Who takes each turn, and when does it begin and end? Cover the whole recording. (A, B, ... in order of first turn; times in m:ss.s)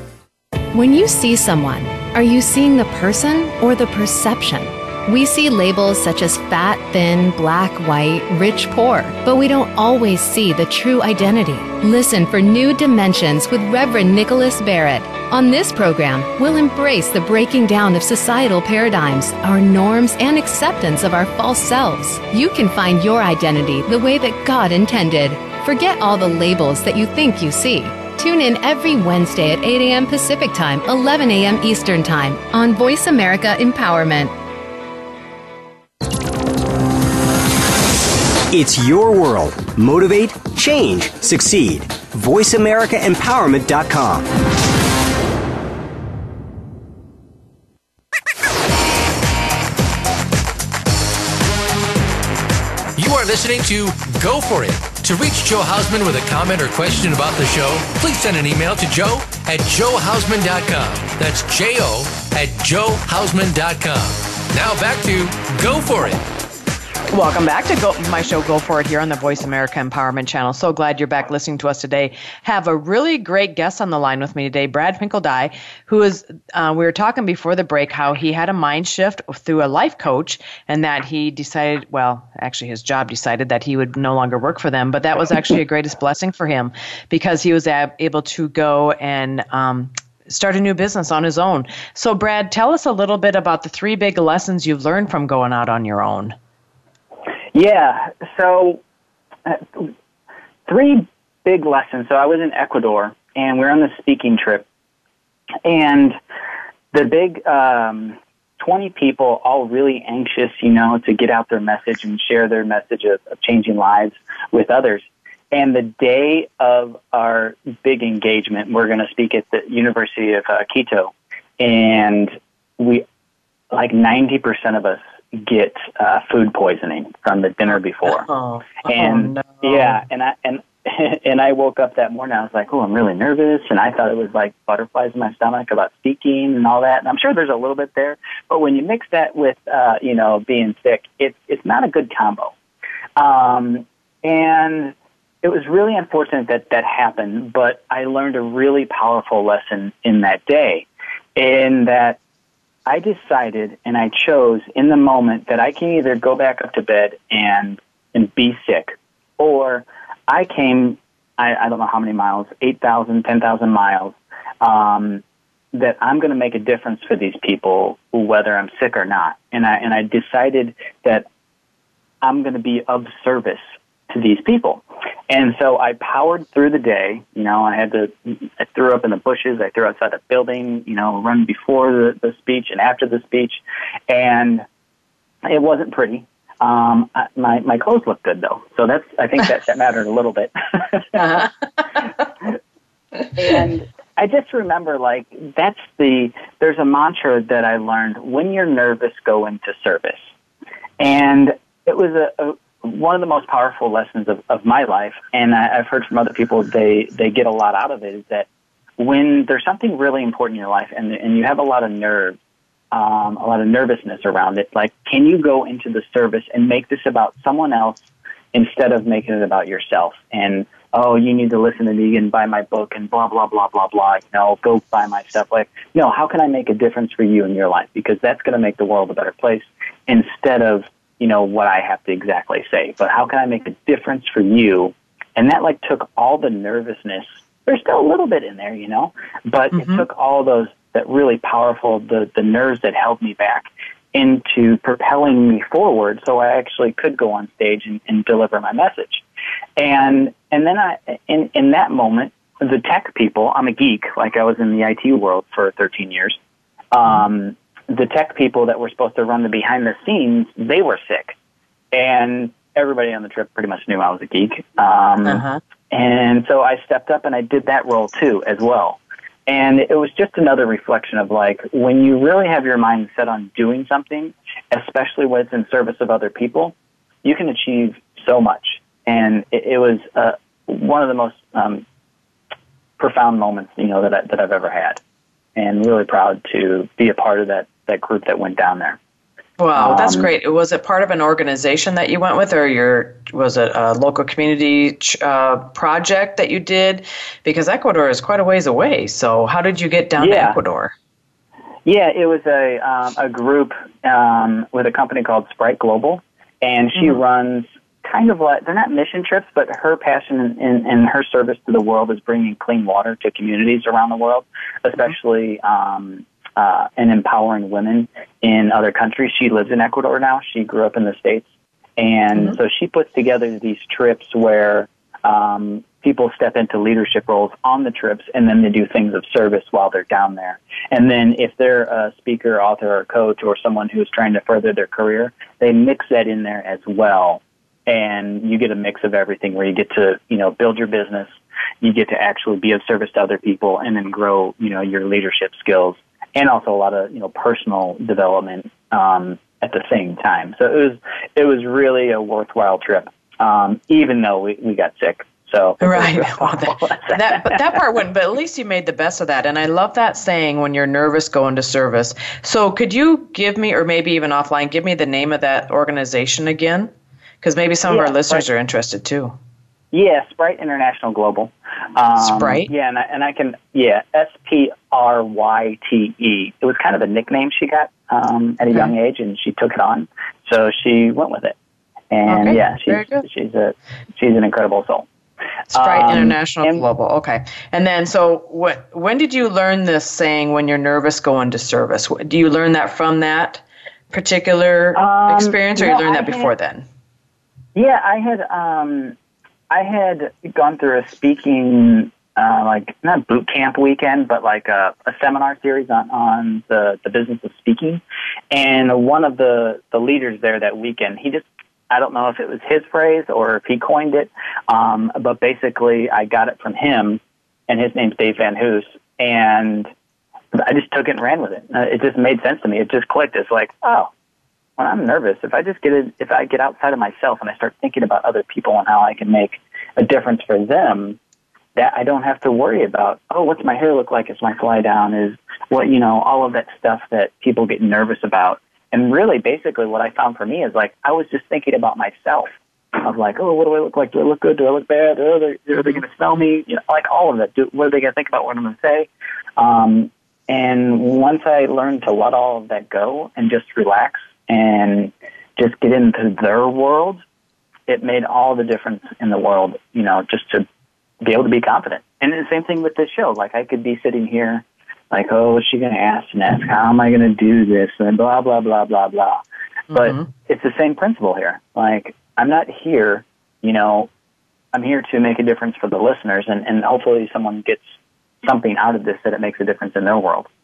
0:00.7-0:34.3 A
0:38.5-0:44.3 B
0:53.0-1:06.2 C
1:07.1-1:36.3 D
1:37.5-1:38.8 E
1:39.4-1:39.9 E
1:40.7-1:44.6 E
1:45.6-1:46.2 E
1:46.9-2:03.0 E
2:03.7-2:08.3 E
2:08.2-2:10.0 D
2:08.8-2:22.5 E
2:23.2-2:32.2 E
2:32.8-2:45.2 E
2:45.7-2:51.2 E
2:52.2-3:04.6 E
3:05.4-3:11.5 E
3:13.3-3:20.2 E
3:21.0-3:28.5 E
3:29.0-3:32.4 E
3:32.9-4:09.2 E
3:59.7-4:00.0 D
4:09.8-4:16.4 E
4:16.9-4:21.3 E
4:21.9-4:41.8 E
4:25.2-4:25.6 D
4:43.0-4:45.0 E
4:45.6-4:49.0 E
4:49.6-5:00.9 D
4:49.8-4:50.3 E
5:00.2-5:00.6 E
5:01.8-5:57.8 E
5:55.8-6:06.9 D
6:07.4-6:09.4 D
6:07.9-6:08.4 E
6:09.9-6:21.5 E
6:12.2-6:12.7 D
6:22.1-6:25.1 E
6:22.3-6:23.2 D
6:25.7-6:36.8 D
6:25.7-6:26.8 E
6:35.0-6:36.5 E
6:37.7-6:39.1 E
6:39.7-6:59.9 E
7:00.6-7:04.1 E
7:04.8-7:11.2 E
7:11.8-7:37.2 E
7:37.9-7:40.6 E
7:41.2-7:49.4 E
7:49.9-7:50.3 D
7:49.9-7:54.1 E
7:54.7-8:00.5 E